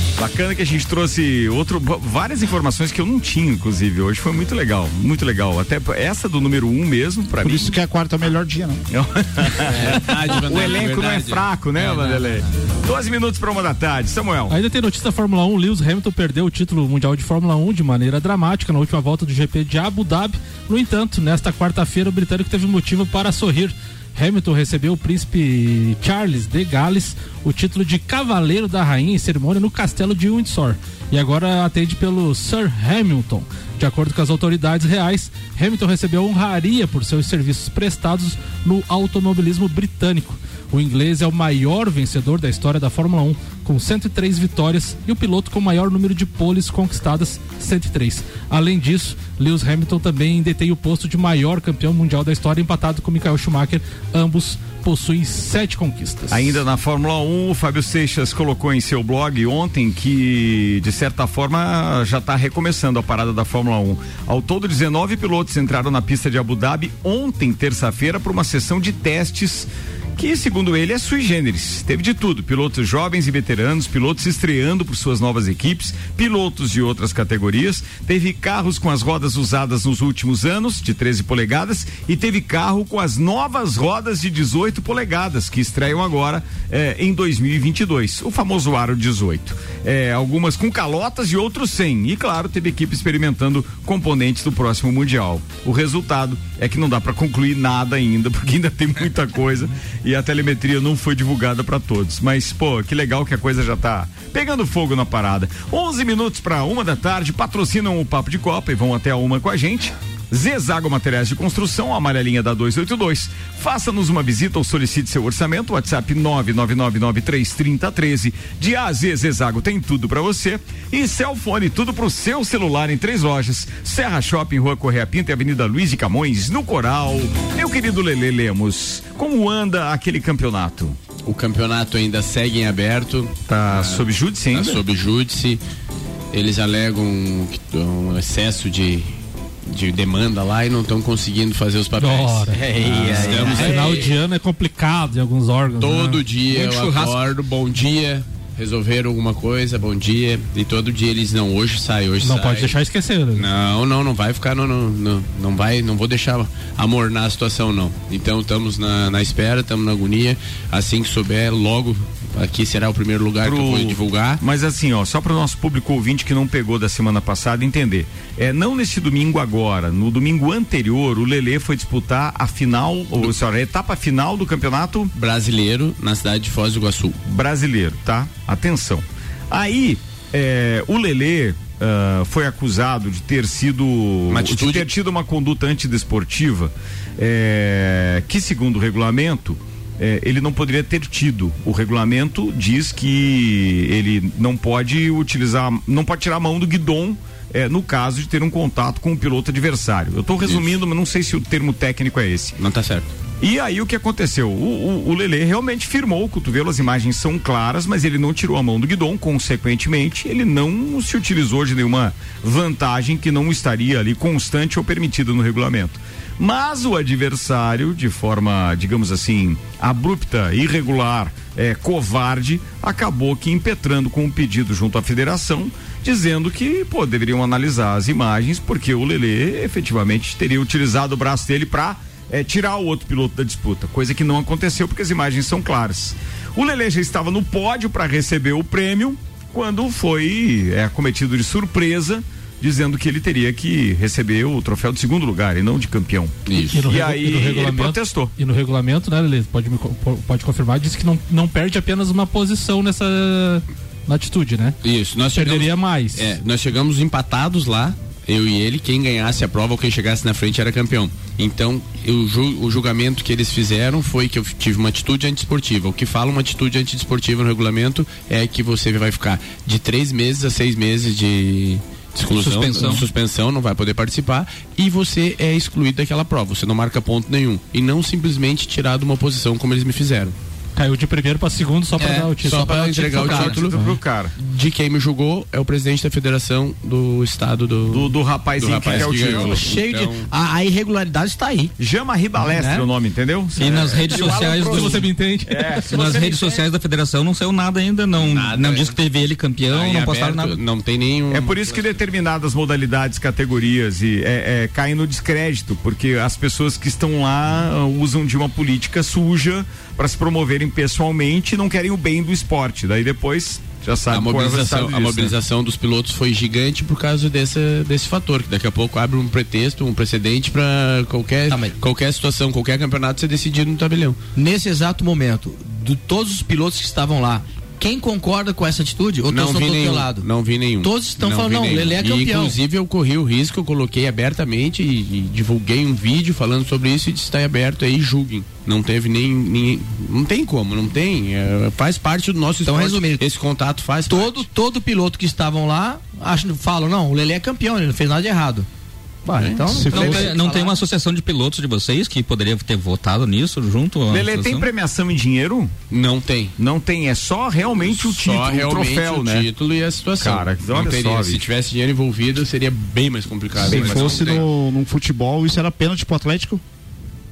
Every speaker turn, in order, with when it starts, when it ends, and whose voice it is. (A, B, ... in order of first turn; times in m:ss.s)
0:00.2-0:07.8 A
0:07.4-0:08.8 B
0:08.9-0:14.6 A
0:09.6-0:12.4 C
0:14.5-0:56.6 D
0:56.3-2:11.0 A
2:11.3-2:15.6 C
2:13.5-2:14.8 A
2:16.3-2:19.2 C
2:19.7-2:24.1 C
2:22.0-2:22.6 D
2:22.5-2:24.0 E
2:23.4-2:26.2 D
2:25.8-2:32.8 C
2:26.6-2:27.1 E
2:26.6-2:26.8 F
2:32.2-2:33.5 D
2:33.4-2:44.4 C
2:43.4-2:55.1 A
2:55.2-2:57.2 C
2:57.2-3:22.6 A
3:04.3-3:04.9 C
3:20.4-3:20.8 C
3:22.6-3:23.1 C
3:23.4-4:08.3 A
4:06.5-4:06.9 C
4:06.7-4:14.8 D
4:14.8-4:40.4 C
4:15.3-4:16.4 D
4:32.3-4:33.1 F
4:40.8-4:42.7 D
4:42.0-4:43.6 E
4:42.4-4:43.8 C
4:43.1-4:44.3 A
4:44.4-4:50.3 C
4:47.9-4:49.7 A
4:48.9-4:51.7 E
4:51.8-4:56.4 A
4:52.4-4:52.9 E
4:53.6-4:55.1 F
4:54.6-4:55.9 D
4:55.9-5:00.6 F
4:58.2-4:59.0 C
4:59.7-5:02.1 C
5:01.3-5:15.4 A
5:14.1-5:24.2 C
5:21.5-5:21.8 E
5:24.4-5:30.3 E
5:29.3-5:44.5 C
5:30.8-5:32.6 E
5:42.6-5:43.3 E
5:44.1-5:48.7 E
5:49.2-5:50.8 E
5:49.4-5:50.3 B
5:49.8-5:54.7 F
5:54.1-5:55.7 A
5:55.9-5:56.5 C
5:56.6-5:59.5 A
5:57.8-6:04.5 C
6:00.2-6:01.4 A
6:03.6-6:04.5 A
6:03.6-6:06.6 B